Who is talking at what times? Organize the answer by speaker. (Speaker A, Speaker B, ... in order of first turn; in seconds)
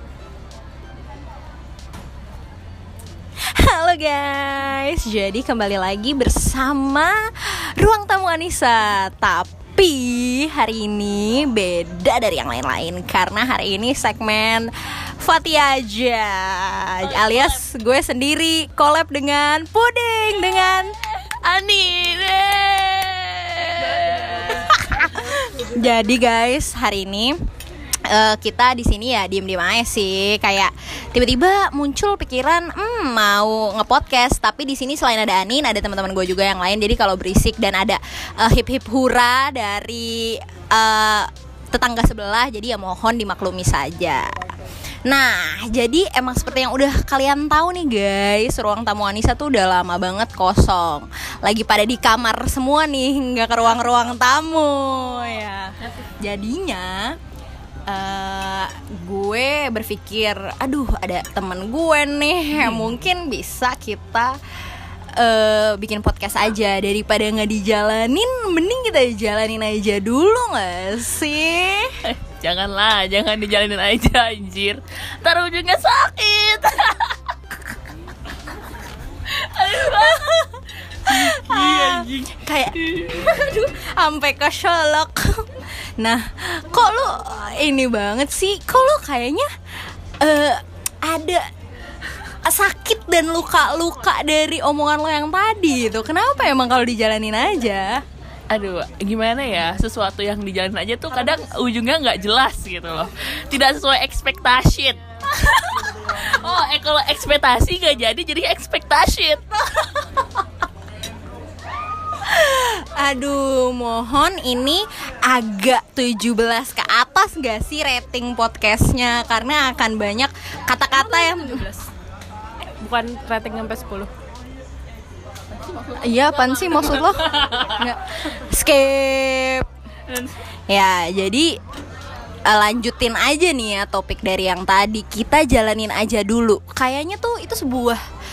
Speaker A: 3.5-20.9, 24.5-27.4, 28.1-44.4, 45.0-57.2, 57.9-64.3, 65.2-71.9, 79.8-80.5, 81.1-89.5, 90.2-91.4, 92.4-98.0, 112.2-121.7, 126.0-129.7, 130.7-131.6, 132.5-138.0
Speaker B: 17.0-17.7, 20.4-24.9, 62.6-62.9, 72.0-77.3, 79.2-80.5, 81.0-83.4, 98.5-110.2, 125.6-127.8, 130.1-130.3
Speaker C: 23.9-25.5, 120.9-121.9, 122.8-124.1